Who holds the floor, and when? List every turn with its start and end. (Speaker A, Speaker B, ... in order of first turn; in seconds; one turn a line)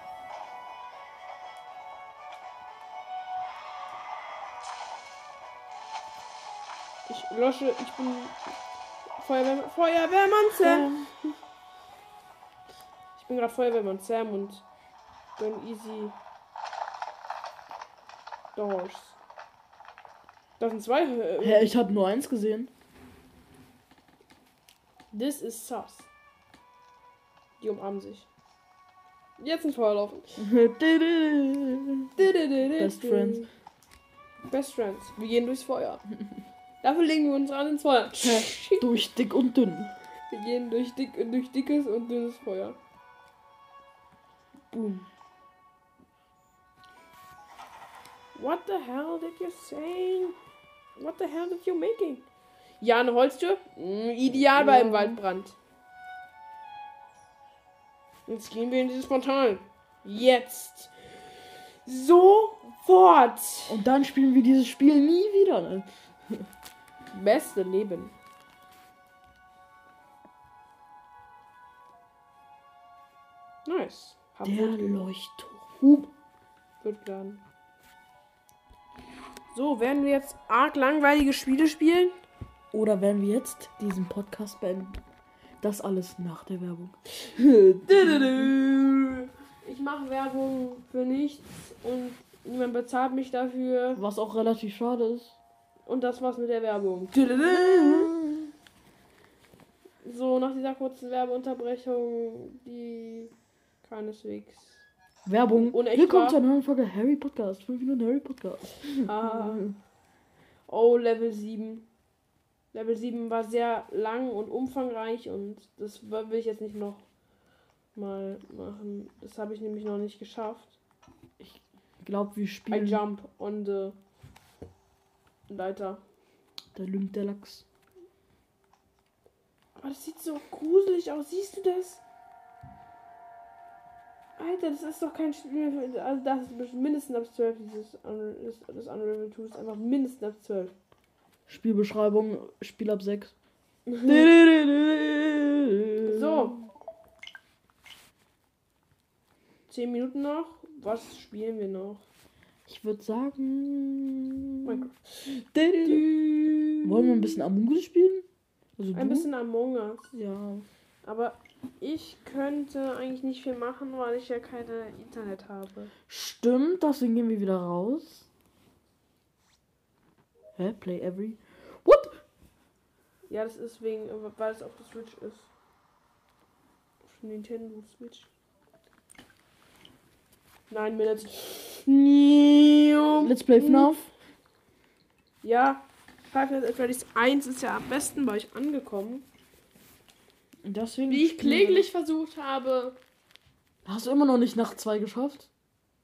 Speaker A: 7.1-8.5
Speaker A: 9.2-10.9
Speaker B: 10.6-11.2
Speaker A: 13.2-14.6
Speaker A: 15.4-16.1
Speaker A: 18.5-19.2
Speaker A: 20.6-21.8
Speaker B: 21.4-22.7
Speaker A: 25.1-26.1
Speaker A: 27.6-28.3
Speaker A: 29.4-30.3
Speaker B: 30.4-33.4
Speaker A: 32.2-33.5
Speaker A: 34.5-36.0
Speaker A: 36.8-38.9
Speaker B: 38.2-39.9
Speaker A: 40.3-42.8
Speaker B: 44.7-45.0
Speaker A: 48.3-50.4
Speaker A: 51.0-52.2
Speaker A: 52.8-55.5
Speaker B: 54.5-55.2
Speaker A: 58.3-60.9
Speaker A: 61.8-63.8
Speaker B: 63.7-66.5
Speaker A: 67.1-68.1
Speaker A: 73.6-75.1
Speaker B: 74.4-76.1
Speaker A: 76.8-77.4
Speaker A: 79.5-82.2
Speaker B: 82.7-85.0
Speaker B: 85.6-89.3
Speaker A: 87.9-88.6
Speaker A: 89.6-94.0
Speaker B: 94.0-95.4
Speaker A: 95.9-98.1
Speaker B: 97.1-98.5
Speaker A: 100.0-103.3
Speaker A: 103.8-104.8
Speaker B: 105.2-109.8
Speaker A: 105.5-106.4
Speaker A: 109.0-109.7
Speaker A: 110.7-111.9
Speaker A: 112.7-117.0
Speaker A: 117.9-120.8
Speaker B: 121.4-123.0
Speaker A: 122.7-124.0
Speaker A: 125.5-126.0
Speaker B: 126.7-127.6
Speaker A: 129.8-132.0
Speaker A: 134.4-140.7
Speaker B: 141.5-143.3
Speaker A: 143.9-144.3
Speaker B: 144.0-146.5
Speaker A: 146.1-146.6
Speaker A: 149.7-152.0
Speaker B: 152.7-158.2
Speaker A: 154.6-156.1
Speaker B: 158.8-159.3
Speaker A: 158.9-160.1
Speaker B: 160.1-160.7
Speaker A: 161.0-165.9
Speaker B: 166.1-168.3
Speaker B: 170.6-172.2
Speaker A: 173.3-175.5
Speaker A: 177.1-178.3
Speaker A: 180.7-183.9
Speaker B: 183.2-184.1
Speaker A: 185.4-189.2
Speaker B: 190.6-191.8
Speaker A: 191.1-193.0
Speaker B: 193.8-195.5